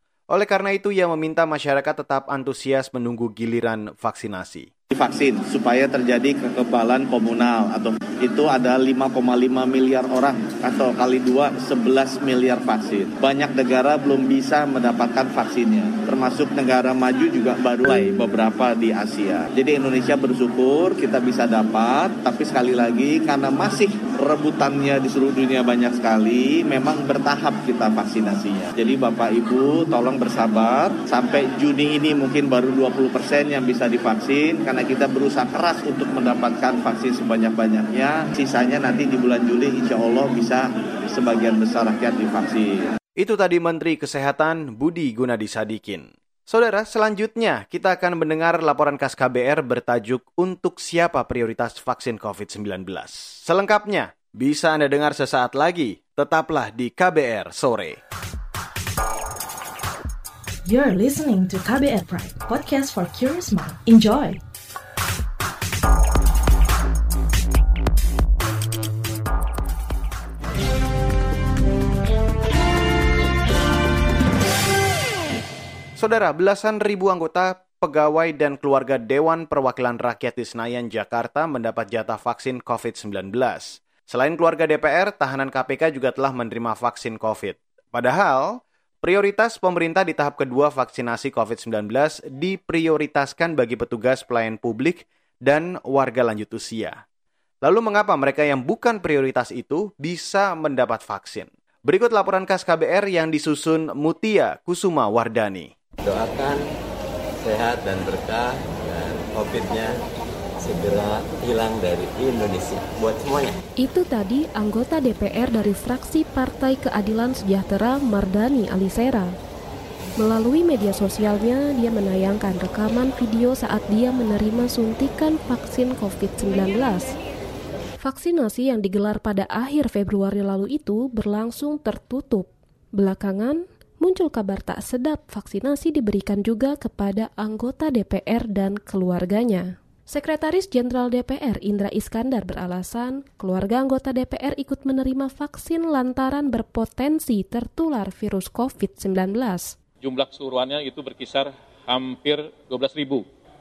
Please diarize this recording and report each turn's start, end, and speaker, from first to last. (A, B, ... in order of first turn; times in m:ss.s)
0:00.3-0:04.7 A
0:04.9-0:42.9 B
0:43.2-0:58.0 A
1:00.6-1:04.4 C
1:16.0-1:37.0 A
1:37.6-1:45.7 A
1:46.0-1:46.6 D
1:47.4-1:50.0 D
1:50.6-1:53.6 D
1:53.8-1:59.4 E
2:00.2-2:07.1 E
2:08.0-2:29.8 E
2:30.0-2:33.2 F